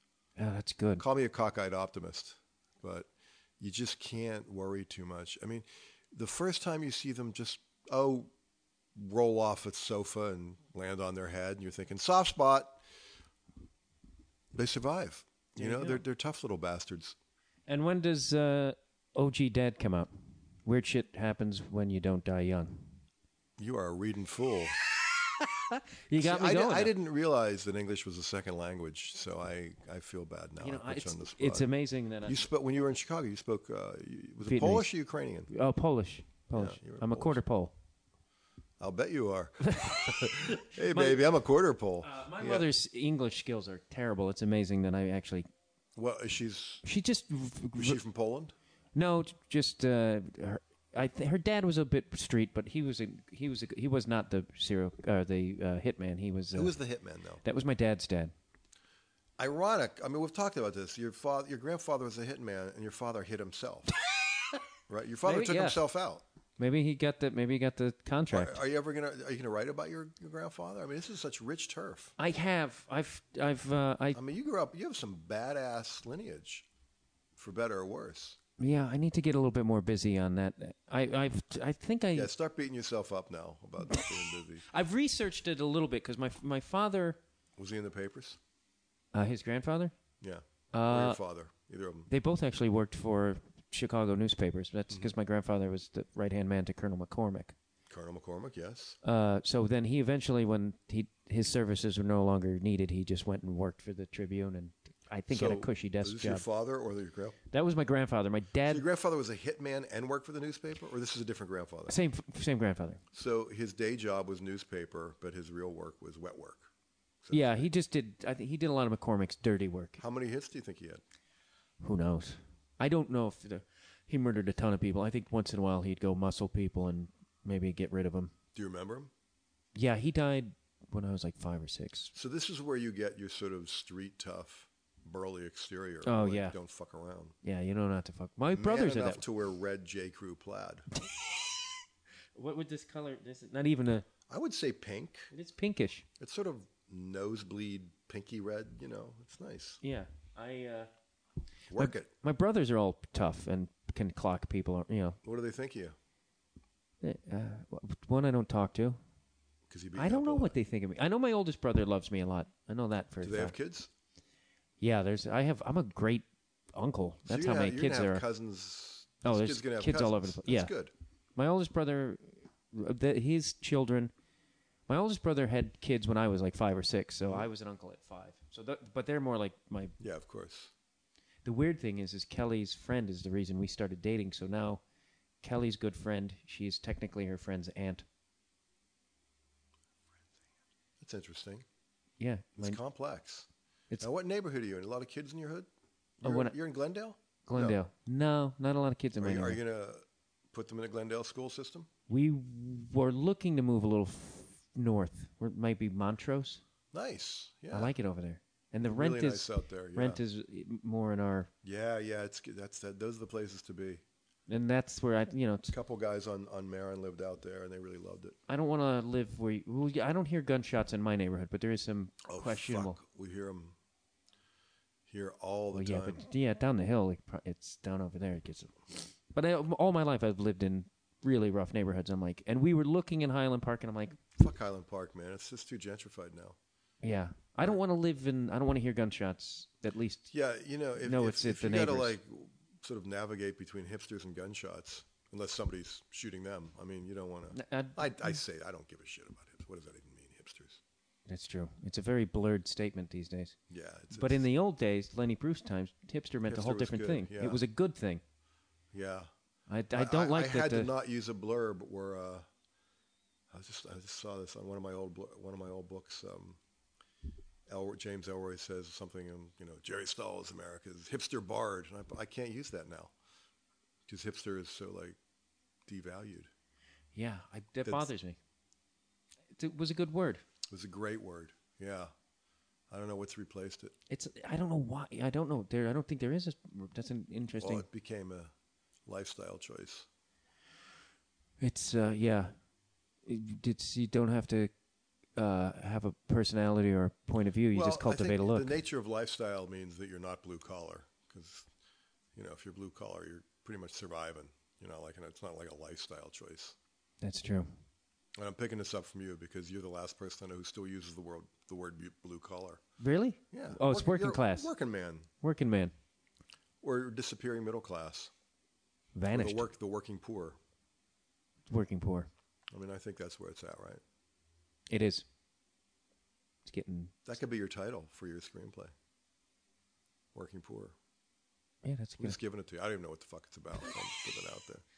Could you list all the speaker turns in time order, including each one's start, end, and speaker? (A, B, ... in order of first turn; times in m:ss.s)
0:00.4-0:01.0 A
0:01.0-0:08.3 B
0:09.0-0:12.8 B
0:14.5-0:17.2 B
0:15.6-0:16.0 A
0:17.7-0:20.1 A
0:20.6-0:23.0 A
0:23.6-0:24.8 B
0:25.6-0:26.9 A
0:26.2-0:31.7 B
0:30.6-0:32.4 A
0:32.2-0:35.5 B
0:34.4-0:34.9 A
0:35.5-0:37.7 A
0:36.5-0:37.4 B
0:38.8-0:42.7 B
0:39.6-0:41.2 A
0:42.0-0:45.5 A
0:46.0-0:46.8 B
0:46.8-0:48.0 A
0:47.8-0:48.5 B
0:49.0-0:56.8 A
0:56.5-0:57.4 B
0:57.4-0:58.3 A
0:59.4-1:03.9 B
1:04.9-1:06.2 B
1:05.3-1:05.8 A
1:06.6-1:08.6 A
1:08.3-1:12.1 B
1:12.2-1:14.2 A
1:14.1-1:16.7 B
1:17.4-1:18.4 B
1:18.6-1:22.3 A
1:22.1-1:24.7 B
1:24.6-1:27.2 A
1:27.6-1:28.4 B
1:29.1-1:30.0 A
1:30.2-1:32.1 B
1:30.7-1:31.2 A
1:32.1-1:37.6 A
1:37.9-1:39.0 B
1:39.0-1:46.4 A
1:45.3-1:47.4 B
1:47.5-1:48.8 A
1:48.7-1:52.0 B
1:51.9-1:53.0 A
1:53.1-1:56.7 B
1:57.2-1:57.7 B
1:57.3-2:00.0 A
2:00.0-2:01.0 B
2:01.8-2:08.3 A
2:08.6-2:09.1 B
2:09.8-2:12.1 A
2:12.1-2:17.4 B
2:16.0-2:16.6 A
2:17.4-2:19.2 A
2:18.5-2:20.8 B
2:22.4-2:24.1 A
2:24.3-2:25.3 B
2:25.3-2:26.1 A
2:26.2-2:29.8 B
2:29.8-2:30.9 A
2:31.7-2:32.1 B
2:31.8-2:35.2 A
2:35.2-2:36.0 B
2:37.0-2:39.0 A
2:39.7-2:40.6 B
2:40.0-2:43.6 A
2:43.2-2:43.9 B
2:44.8-2:48.2 A
2:47.3-2:50.9 B
2:49.2-2:50.7 A
2:51.4-2:54.1 A
2:54.9-3:00.0 A
3:00.0-3:00.7 B
3:01.4-3:04.8 A
3:05.4-3:08.0 A
3:11.0-3:11.7 B
3:12.2-3:12.8 A
3:12.6-3:13.5 B
3:14.0-3:15.7 B
3:16.2-3:17.8 B
3:16.2-3:16.6 A
3:17.4-3:19.6 A
3:19.2-3:21.9 B
3:22.1-3:26.6 A
3:26.9-3:27.9 B
3:27.7-3:31.5 A
3:28.8-3:30.2 B
3:31.6-3:34.0 B
3:34.5-3:35.8 A
3:35.7-3:38.4 B
3:38.5-3:43.0 A
3:42.3-3:43.8 B
3:45.1-3:46.2 B
3:45.7-3:54.2 A
3:54.3-3:56.6 B
3:57.0-4:00.3 A
4:00.3-4:10.8 B
4:01.0-4:02.2 A
4:07.5-4:08.4 A
4:11.3-4:13.6 A
4:13.7-4:14.5 B
4:14.1-4:18.2 A
4:16.5-4:17.6 B
4:18.9-4:19.3 B
4:19.7-4:20.9 A
4:19.9-4:22.5 B
4:23.5-4:26.6 B
4:27.7-4:33.1 B
4:34.1-4:35.2 B
4:35.9-4:36.5 B
4:37.2-4:38.4 A
4:37.8-4:38.1 B
4:39.6-4:40.4 A
4:40.7-4:42.1 B
4:42.9-4:43.9 B
4:44.1-4:47.9 A
4:47.6-4:48.5 B
4:49.1-4:50.1 B
4:51.6-4:52.5 A
4:53.3-4:54.7 A
4:55.4-4:58.8 A
4:57.7-5:01.7 B
5:02.4-5:06.8 B
5:07.2-5:07.7 A
5:08.4-5:12.8 B
5:13.0-5:14.7 A
5:13.5-5:15.3 B
5:15.4-5:15.9 A
5:16.8-5:18.3 B
5:19.2-5:19.7 A
5:19.3-5:20.6 B
5:21.7-5:22.3 A
5:22.7-5:24.0 B
5:24.9-5:25.3 A
5:26.7-5:27.1 A
5:27.3-5:28.9 B
5:30.3-5:31.0 B
5:31.8-5:32.4 A
5:32.2-5:34.8 B